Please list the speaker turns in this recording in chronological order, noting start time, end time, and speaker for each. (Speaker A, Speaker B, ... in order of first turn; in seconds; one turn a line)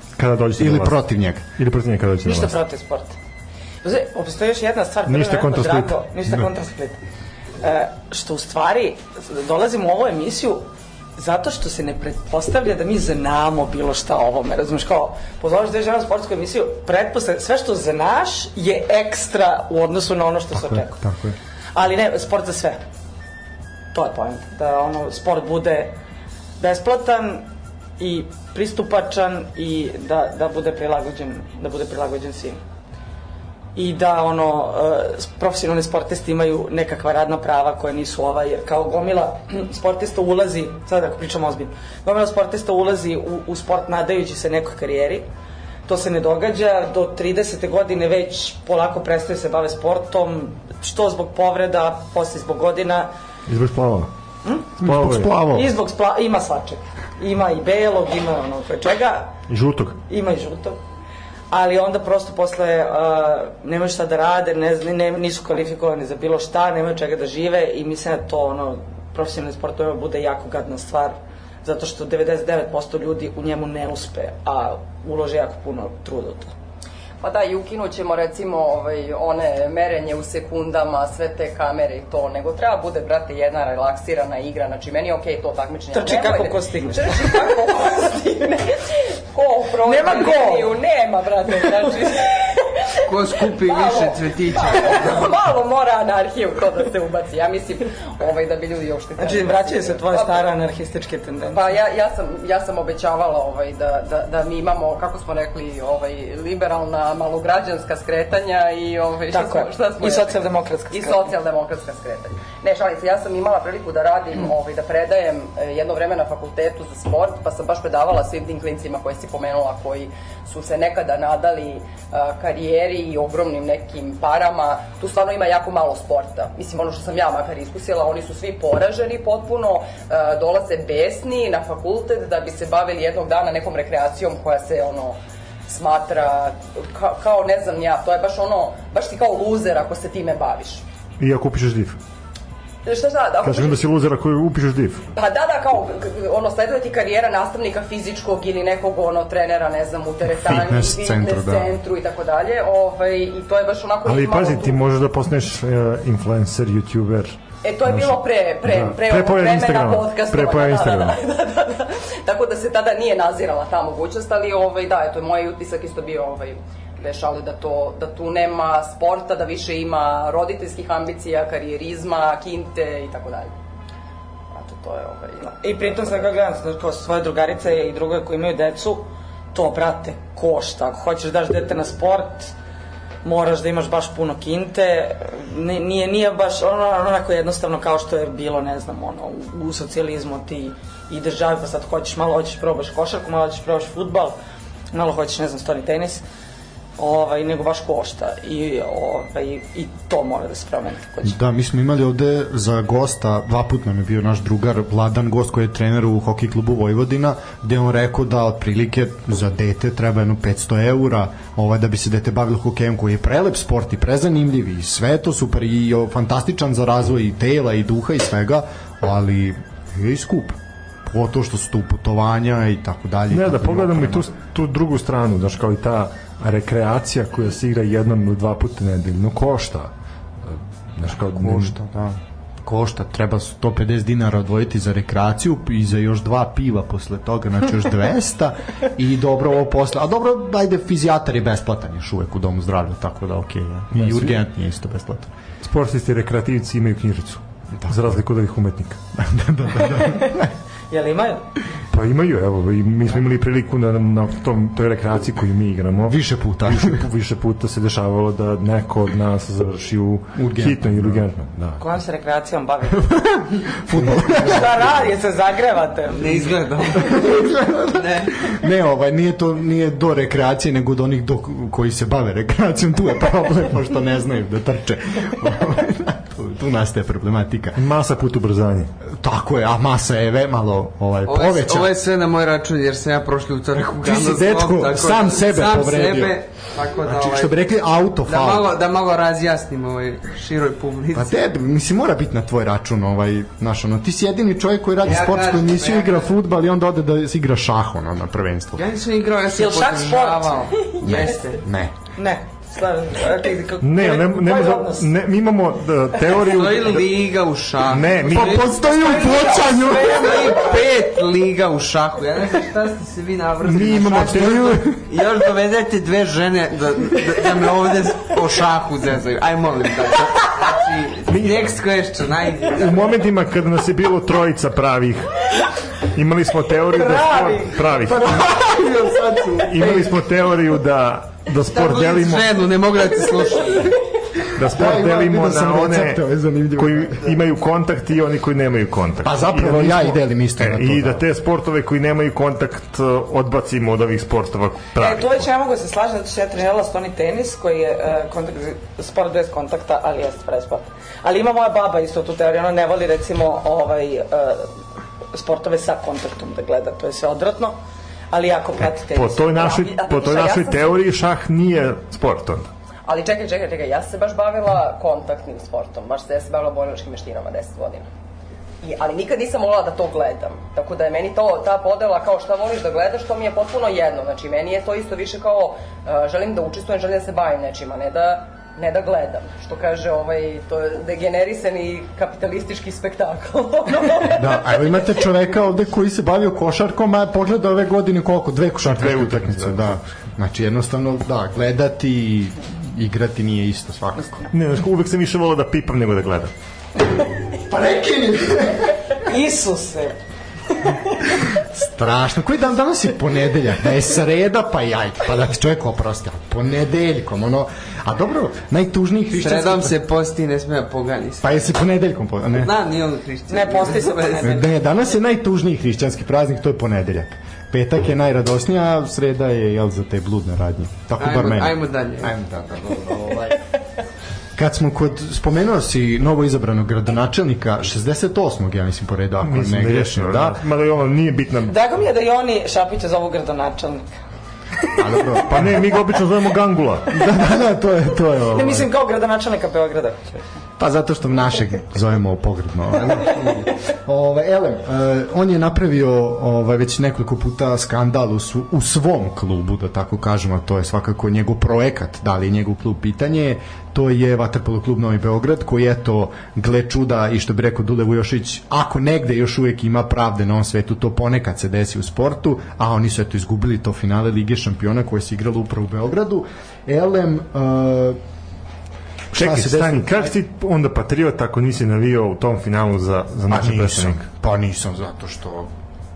Speaker A: 0.2-1.0
Speaker B: 0.6-1.4
Speaker A: 1.6-2.5
Speaker C: 2.2-3.2
Speaker C: 3.8-7.0
Speaker A: 5.1-6.5
Speaker C: 7.6-10.6
Speaker C: 11.2-21.0
Speaker B: 20.5-21.4
Speaker C: 21.7-22.8
Speaker C: 23.9-25.9
Speaker C: 26.6-27.5
Speaker C: 28.0-32.6
Speaker C: 33.8-45.2
Speaker C: 45.9-53.1
Speaker A: 53.5-54.1
Speaker C: 54.5-54.8
Speaker A: 54.8-55.6
Speaker B: 54.8-55.7
Speaker C: 55.4-59.4
Speaker A: 59.5-60.0
Speaker C: 60.1-60.8
Speaker C: 61.5-76.5
Speaker D: 77.2-100.5
Speaker C: 85.9-87.5
Speaker C: 89.8-90.8
Speaker E: 93.1-95.2
Speaker C: 99.2-101.6
Speaker D: 101.5-140.8
Speaker C: 109.3-111.3
Speaker A: 141.2-142.0
Speaker D: 142.8-143.8
Speaker A: 143.4-145.1
Speaker D: 145.1-154.8
Speaker B: 150.4-151.8
Speaker A: 154.1-161.2
Speaker D: 157.6-173.6
Speaker D: 174.5-176.0
Speaker C: 175.6-182.5
Speaker C: 183.2-194.4
Speaker C: 194.9-196.2
Speaker C: 197.0-201.3
Speaker B: 201.2-224.3
Speaker A: 223.3-229.9
Speaker A: 230.4-231.8
Speaker B: 231.0-245.3
Speaker A: 244.0-244.4
Speaker A: 245.6-249.0
Speaker B: 249.2-250.5
Speaker C: 250.9-251.4
Speaker A: 251.9-261.8
Speaker B: 256.1-257.0
Speaker B: 260.4-261.3
Speaker C: 261.8-263.3
Speaker B: 263.1-265.0
Speaker C: 264.1-266.6
Speaker E: 266.1-268.5
Speaker B: 267.0-277.8
Speaker A: 277.8-278.9
Speaker B: 279.1-281.9
Speaker E: 281.3-287.5
Speaker B: 284.0-286.4
Speaker B: 287.0-288.7
Speaker E: 288.3-291.4
Speaker B: 291.1-298.8
Speaker E: 295.0-296.3
Speaker E: 298.8-301.6
Speaker C: 299.5-300.8
Speaker B: 301.0-301.9
Speaker C: 302.2-305.1
Speaker A: 303.8-307.2
Speaker E: 306.4-323.0
Speaker A: 307.8-308.8
Speaker B: 307.9-310.5
Speaker C: 308.8-310.9
Speaker A: 313.6-314.9
Speaker B: 313.9-315.0
Speaker A: 321.3-321.7
Speaker A: 322.7-325.4
Speaker A: 326.0-328.4
Speaker C: 326.9-327.9
Speaker B: 328.3-330.1
Speaker E: 328.4-330.1
Speaker A: 329.6-332.5
Speaker E: 331.7-334.0
Speaker A: 334.5-336.2
Speaker B: 334.6-337.3
Speaker A: 336.8-345.4
Speaker B: 339.2-341.2
Speaker C: 345.0-354.7
Speaker C: 355.3-357.8
Speaker C: 358.3-359.7
Speaker A: 358.8-362.7
Speaker D: 359.6-361.0
Speaker D: 363.1-368.1
Speaker D: 368.8-385.0
Speaker B: 384.3-394.4
Speaker A: 388.8-390.0
Speaker A: 394.5-396.5
Speaker B: 397.6-399.0
Speaker C: 399.2-400.2
Speaker B: 401.7-410.0
Speaker E: 409.4-411.6
Speaker B: 411.4-412.7
Speaker E: 412.6-414.6
Speaker C: 413.5-414.8
Speaker B: 414.4-423.6
Speaker E: 421.2-422.3
Speaker B: 424.6-430.6
Speaker A: 429.4-431.7
Speaker C: 431.7-434.1
Speaker B: 434.9-435.8
Speaker A: 435.5-437.2
Speaker B: 437.1-438.9
Speaker C: 438.5-440.4
Speaker B: 440.8-468.2
Speaker B: 469.3-470.3
Speaker A: 469.3-474.2
Speaker B: 473.5-475.7